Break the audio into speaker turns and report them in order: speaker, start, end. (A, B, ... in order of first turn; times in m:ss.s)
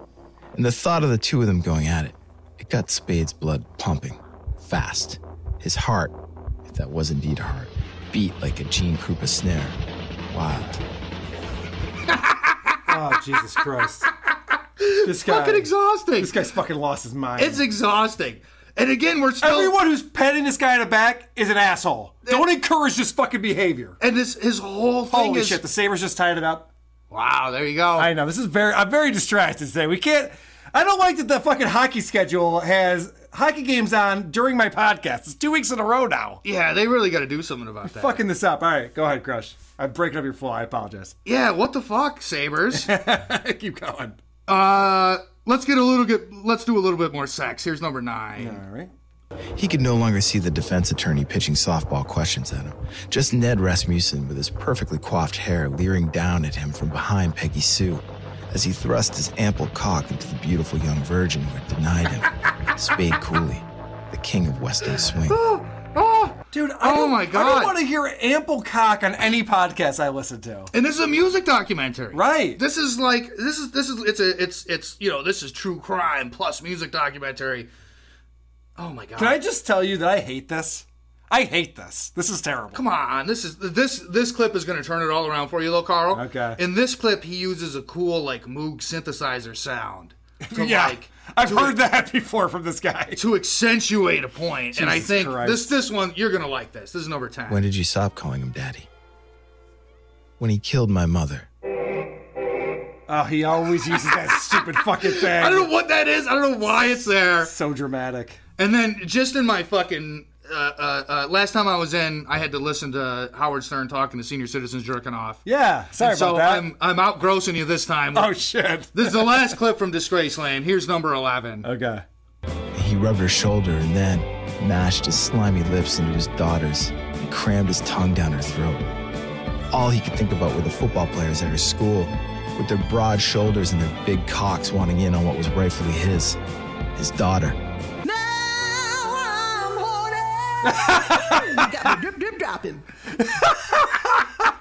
0:00.5-0:06.1 A
0:06.7-0:09.8 A
0:10.3-0:10.8 A
0:12.1-0:12.7 B
0:12.9-0:14.1 C
0:14.8-0:16.3 B
0:15.0-0:17.6 C
0:17.4-0:19.8 B
0:19.4-0:24.0 C
0:24.0-0:25.6 B
0:25.1-0:26.7 C
0:27.1-0:28.1 B
0:28.0-0:36.4 C
0:36.4-0:38.2 B
0:37.8-0:41.2 C
0:41.2-0:42.9 B
0:42.7-0:44.2 C
0:44.5-0:48.6 B
0:48.4-0:48.9 C
0:49.6-1:05.4 A
1:05.3-1:07.7 B
1:06.5-1:10.7 C
1:10.7-1:17.7 B
1:12.1-1:12.6 C
1:18.8-1:19.4 B
1:19.2-1:22.8 C
1:22.7-1:31.8 B
1:26.1-1:26.6 C
1:30.4-1:33.2 C
1:33.2-1:37.6 B
1:34.8-1:35.7 C
1:37.5-1:38.9 A
1:40.4-1:41.5 A
1:43.1-1:45.7 C
1:45.1-1:47.5 B
1:47.4-1:48.4 C
1:48.6-1:55.4 B
1:55.5-1:56.7 C
1:56.0-1:58.3 B
1:58.1-1:59.5 C
1:58.9-2:01.7 B
2:01.6-2:02.0 C
2:02.8-2:08.8 A
2:09.7-2:16.4 A
2:17.0-2:17.6 A
2:18.1-2:20.6 D
2:20.6-2:21.9 C
2:22.1-2:22.8 D
2:23.2-2:24.3 C